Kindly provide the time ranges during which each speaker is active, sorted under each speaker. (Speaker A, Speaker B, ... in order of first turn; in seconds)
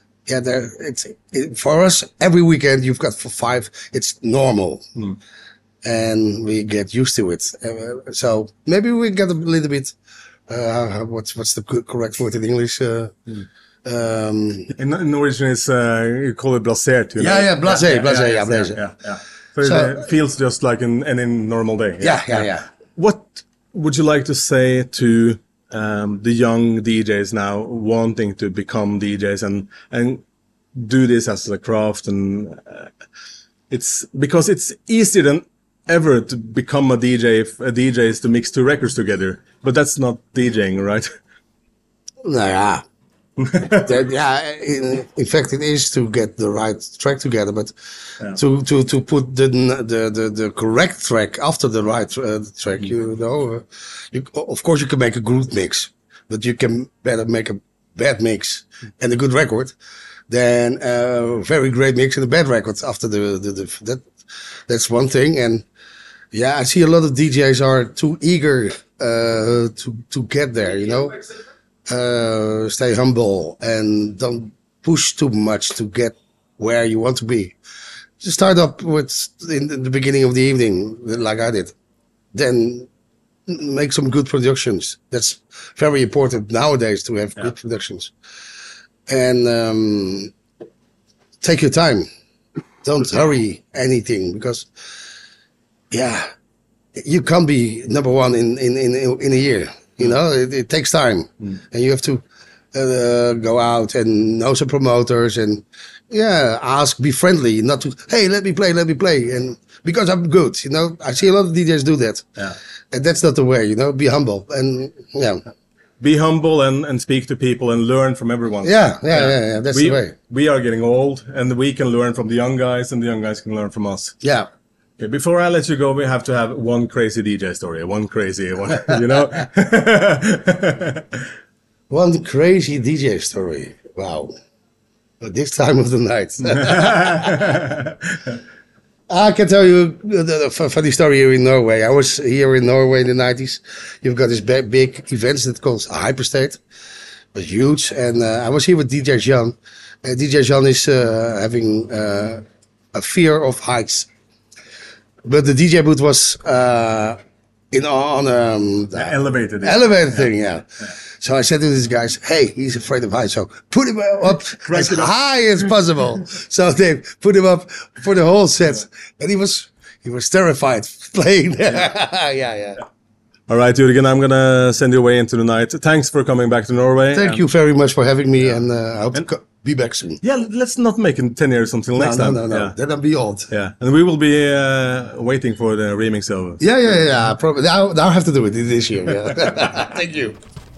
Speaker A: 0.2-4.8, 5.8-9.9, 10.5-13.1, 13.8-14.7, 17.2-18.8, 19.6-20.0, 22.0-22.7, 42.2-42.8, 43.6-59.7, 60.3-65.6, 66.3-71.2, 71.9-77.5, 78.2-81.7, 82.3-82.9, 83.5-88.1, 89.1-90.3, 91.4-92.1, 92.8-94.7, 95.9-96.3, 97.0-102.2, 102.7-112.2, 112.9-115.4, 118.6-120.1, 124.2-124.5, 131.9-134.3, 135.2-137.6, 139.1-146.6, 147.3-152.4, 152.9-154.1, 155.2-157.2, 157.7-172.8, 177.1-180.2, 181.9-183.5, 186.6-190.3
Speaker B: 14.7-30.2, 30.7-32.9, 33.7-41.1, 43.4-43.9, 116.0-124.2, 125.0-131.2, 136.7-137.9, 158.9-160.0, 164.7-165.1, 173.5-177.4, 180.2-182.7, 183.5-186.6